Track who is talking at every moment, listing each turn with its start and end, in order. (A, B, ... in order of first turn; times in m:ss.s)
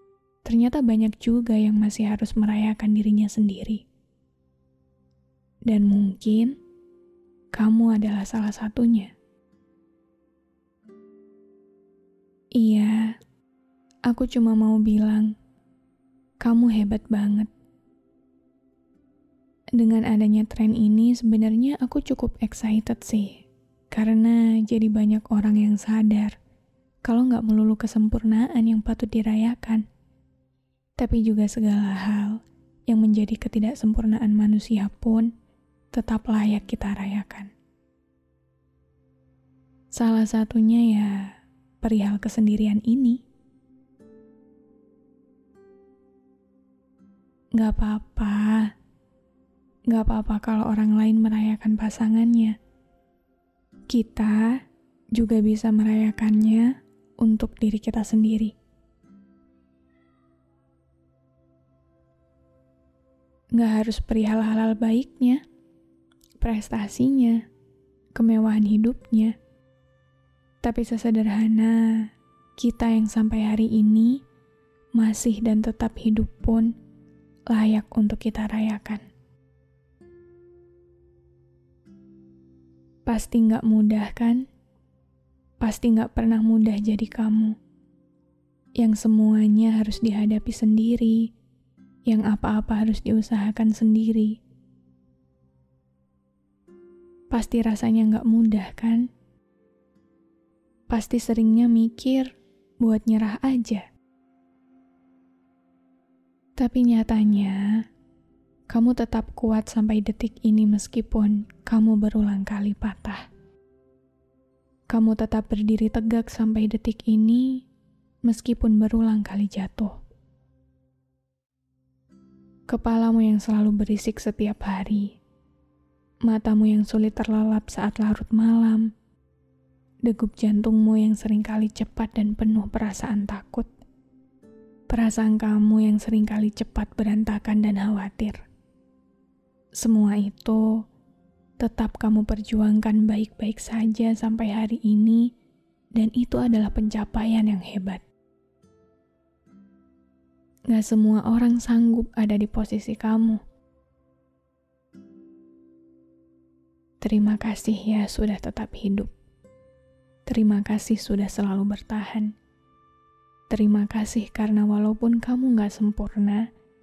0:00.4-0:03.8 A
0:05.7-0:06.6 A
0:07.5-0:09.1 A
0:12.6-0:13.2 A
0:14.1-0:15.3 A
0:16.4-0:17.5 A
0:19.8-0:26.4 A
0:27.0-0:29.8 A
0:31.0-0:35.3 A
0:35.9-0:37.5 A
0:39.9-0:43.2 A
0:47.6-0:48.7 A
0:49.9-0:52.6 A
0:53.9-0:54.6 A
0:55.2-0:58.5 A
1:03.5-1:05.4 A
1:06.4-1:07.4 A
1:08.2-1:09.4 A
1:10.6-1:12.0 A
1:12.6-1:14.2 A
1:15.0-1:16.7 A
1:17.5-1:19.0 A
1:23.1-1:24.5 A
1:25.6-1:27.6 A
1:28.8-1:31.3 A
1:32.1-1:34.4 A
1:37.3-1:39.1 A
1:40.9-1:43.8 A
1:46.6-1:47.6 A
1:48.7-1:53.3 A
1:54.9-1:57.6 A
1:58.3-1:59.9 A
2:02.7-2:05.2 A
2:06.3-2:08.9 A
2:10.0-2:13.7 A
2:14.9-2:18.4 A
2:19.8-2:20.7 A
2:21.6-2:25.3 A
2:26.0-2:28.0 A
2:30.7-2:33.4 A
2:37.0-2:39.1 A
2:40.3-2:42.3 A
2:43.5-2:46.4 A